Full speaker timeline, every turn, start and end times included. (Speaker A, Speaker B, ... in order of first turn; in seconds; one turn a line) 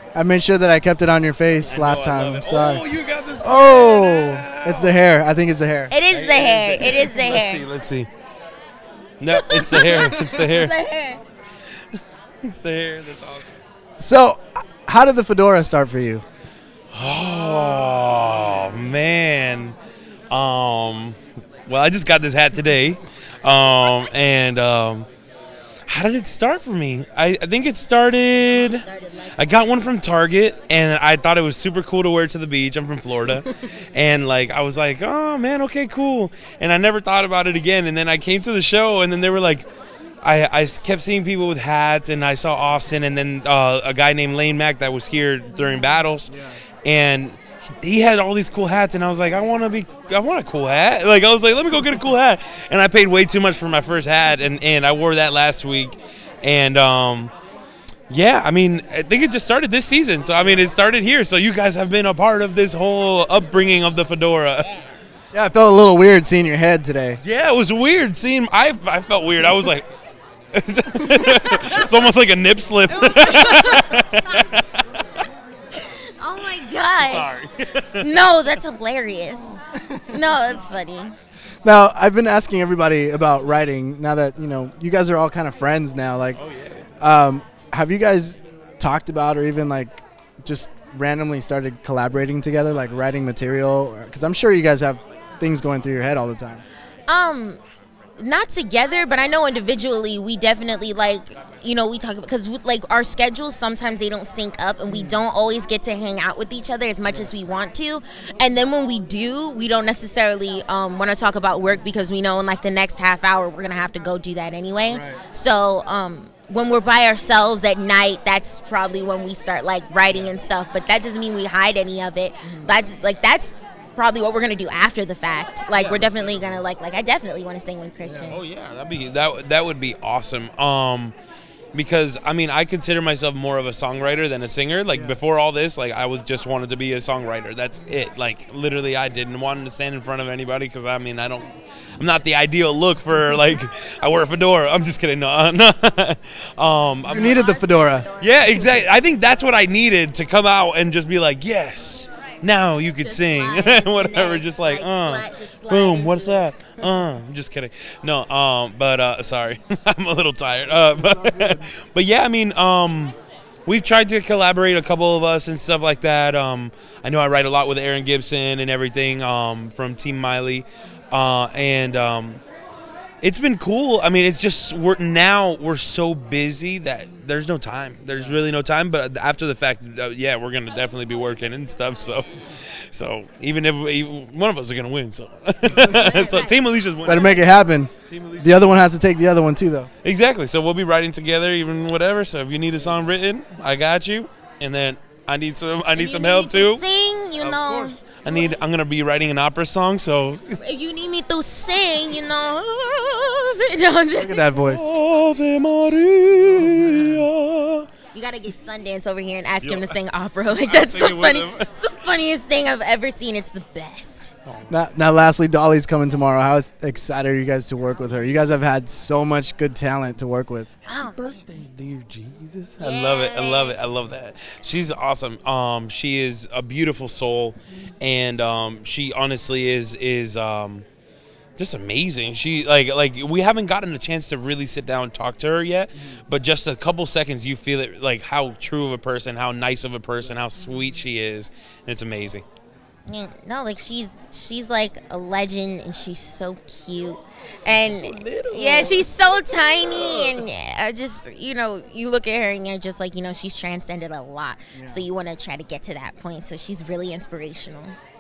Speaker A: 0.1-2.8
Speaker B: 1.6-5.0
Speaker A: 3.4-5.9
Speaker C: 5.9-7.7
Speaker B: 6.1-8.1
Speaker B: 9.2-10.7
Speaker C: 9.3-11.2
Speaker B: 12.4-13.6
Speaker A: 14.0-16.2
Speaker B: 16.9-19.8
Speaker C: 17.2-18.4
Speaker B: 20.3-25.1
Speaker B: 25.9-39.7
Speaker C: 28.4-29.8
Speaker B: 40.2-57.3
Speaker A: 46.3-46.6
Speaker B: 58.1-64.7
Speaker C: 64.6-65.0
Speaker A: 65.3-67.2
Speaker B: 67.2-69.9
Speaker B: 70.5-75.0
Speaker C: 72.9-74.5
Speaker C: 75.8-77.4
Speaker B: 77.0-78.0
Speaker C: 78.0-79.6
Speaker C: 80.1-81.1
Speaker A: 81.6-86.4
Speaker B: 86.3-86.9
Speaker A: 87.0-96.6
Speaker C: 97.1-97.6
Speaker C: 98.2-128.4
Speaker A: 104.9-105.2
Speaker A: 107.1-107.3
Speaker A: 114.8-115.2
Speaker B: 125.7-126.6
Speaker B: 128.2-131.1
Speaker B: 131.7-147.4
Speaker A: 134.9-135.2
Speaker A: 147.1-148.1
Speaker C: 147.1-148.9
Speaker B: 148.2-172.4
Speaker C: 153.0-156.5
Speaker A: 160.9-161.6
Speaker B: 173.2-187.6
Speaker C: 181.9-182.3
Speaker C: 185.7-186.6
Speaker A: 187.0-189.9
Speaker B: 188.1-188.8
Speaker B: 190.0-196.8
Speaker C: 195.9-198.6
Speaker B: 197.4-200.6
Speaker C: 200.6-204.5
Speaker A: 204.1-204.9
Speaker B: 204.6-207.9
Speaker A: 206.5-207.2
Speaker C: 208.1-214.3
Speaker B: 209.6-211.7
Speaker B: 214.5-214.8
Speaker A: 214.7-220.7
Speaker C: 220.8-221.2
Speaker B: 220.9-230.8
Speaker C: 222.8-223.8
Speaker B: 231.6-242.4
Speaker C: 243.1-257.9
Speaker B: 247.7-250.4
Speaker A: 254.7-255.1